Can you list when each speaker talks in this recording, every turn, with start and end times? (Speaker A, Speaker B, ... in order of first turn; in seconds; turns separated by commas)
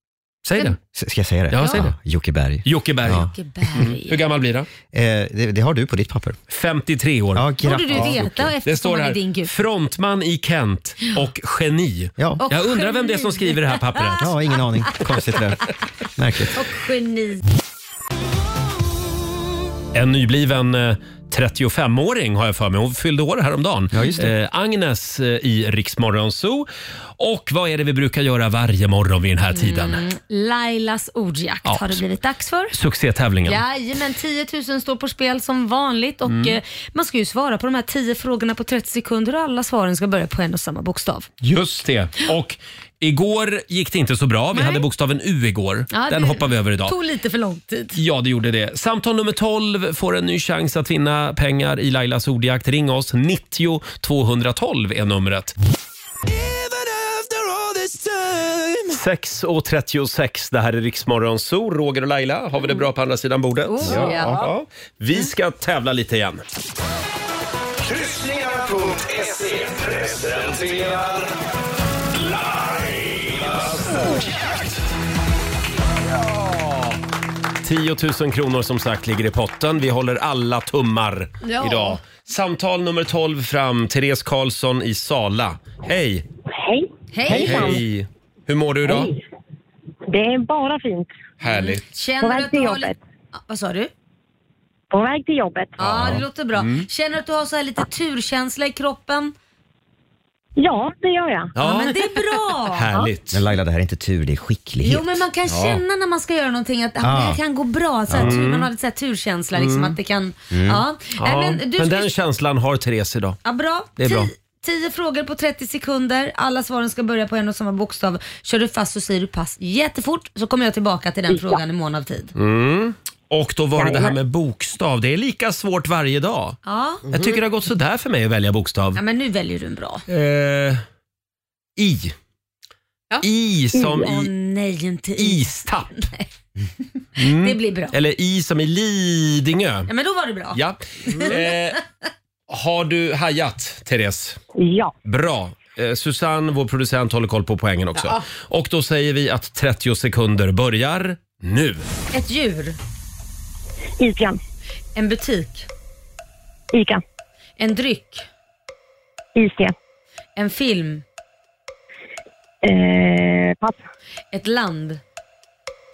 Speaker A: 0.5-0.8, Speaker B: 0.9-3.3, Speaker A: 1.5-1.9, Speaker C: 1.6-1.8, Speaker A: 2.6-4.7, Speaker C: 3.1-4.2, Speaker B: 4.9-6.4, Speaker A: 6.5-14.4, Speaker B: 7.3-8.5, Speaker C: 7.6-9.5, Speaker C: 12.4-14.3, Speaker B: 14.2-16.5, Speaker C: 16.5-17.4, Speaker A: 19.9-30.0, Speaker B: 23.9-24.3, Speaker C: 29.5-32.8, Speaker A: 31.6-32.0, Speaker A: 32.7-33.6, Speaker C: 33.5-41.3, Speaker A: 36.3-36.6, Speaker A: 41.4-47.0, Speaker C: 44.5-44.9, Speaker C: 45.9-48.0, Speaker A: 48.0-55.5, Speaker A: 58.9-66.4, Speaker C: 63.7-64.5, Speaker B: 63.8-64.5, Speaker D: 67.8-71.3, Speaker D: 72.1-74.1, Speaker A: 77.6-86.2, Speaker C: 81.4-82.0, Speaker E: 86.5-87.8, Speaker C: 87.1-87.8, Speaker A: 87.3-89.1, Speaker E: 88.9-89.1, Speaker E: 90.1-91.1, Speaker A: 91.4-91.8, Speaker C: 91.4-93.9, Speaker E: 92.2-93.0, Speaker E: 94.9-95.7, Speaker C: 95.8-99.3, Speaker A: 95.8-96.9, Speaker E: 100.6-101.5, Speaker A: 101.6-102.0, Speaker C: 101.6-102.9, Speaker A: 102.7-103.4, Speaker B: 103.3-105.2, Speaker C: 104.8-112.1, Speaker A: 105.5-105.8, Speaker B: 107.0-107.4, Speaker B: 108.1-108.4, Speaker A: 108.1-108.7, Speaker A: 109.5-110.0, Speaker B: 110.5-110.8, Speaker A: 111.2-113.4, Speaker C: 113.4-122.3, Speaker A: 114.0-114.3, Speaker A: 122.4-126.6, Speaker E: 123.8-124.1, Speaker C: 126.7-127.0, Speaker A: 127.1-129.0, Speaker C: 128.9-130.1, Speaker A: 130.1-130.8, Speaker A: 131.8-132.2, Speaker A: 133.2-134.3, Speaker C: 134.0-136.3, Speaker A: 135.2-135.9, Speaker C: 137.2-137.9, Speaker A: 137.2-139.9, Speaker C: 139.9-141.4, Speaker A: 140.5-141.8, Speaker A: 142.5-144.4, Speaker E: 144.6-144.9, Speaker A: 145.1-151.9, Speaker C: 152.1-152.8, Speaker E: 154.0-154.4, Speaker C: 154.9-155.7, Speaker E: 156.7-157.0, Speaker C: 157.6-158.3, Speaker E: 159.4-159.7, Speaker C: 160.4-161.0, Speaker E: 162.6-163.8, Speaker C: 164.3-165.0